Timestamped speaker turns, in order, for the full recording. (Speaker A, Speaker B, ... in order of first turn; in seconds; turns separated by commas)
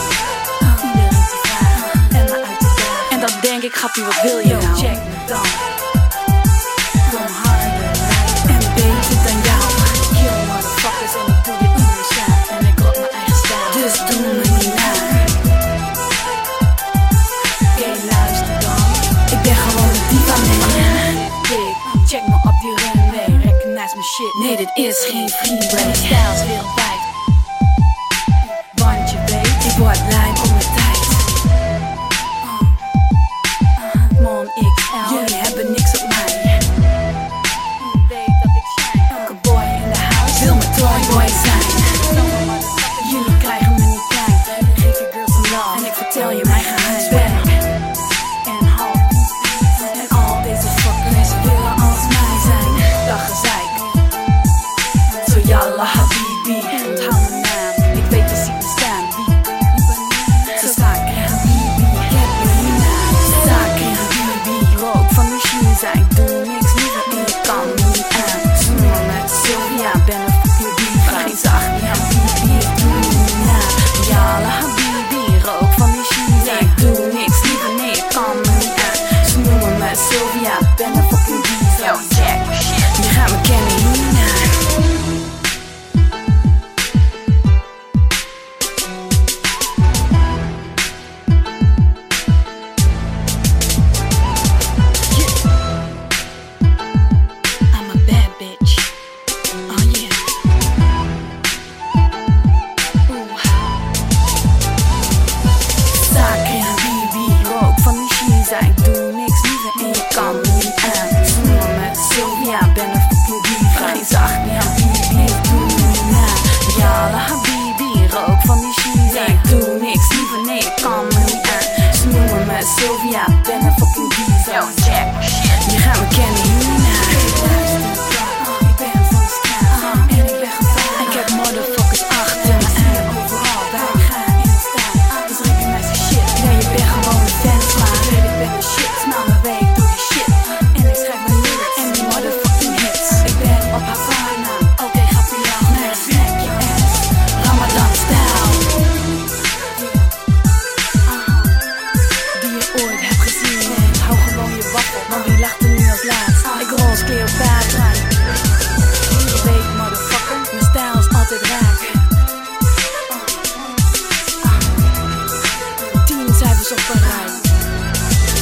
Speaker A: 0.6-5.6, Speaker A: 7.0-15.3, Speaker A: 17.7-27.1, Speaker A: 28.6-31.4, Speaker A: 33.8-36.6, Speaker A: 37.9-47.6, Speaker A: 48.4-54.0, Speaker A: 55.1-84.7, Speaker A: 97.7-99.0, Speaker A: 99.7-100.2, Speaker A: 103.1-103.7, Speaker A: 105.9-148.7, Speaker A: 151.1-151.6, Speaker A: 152.3-158.1, Speaker A: 159.1-162.1, Speaker A: 165.8-167.5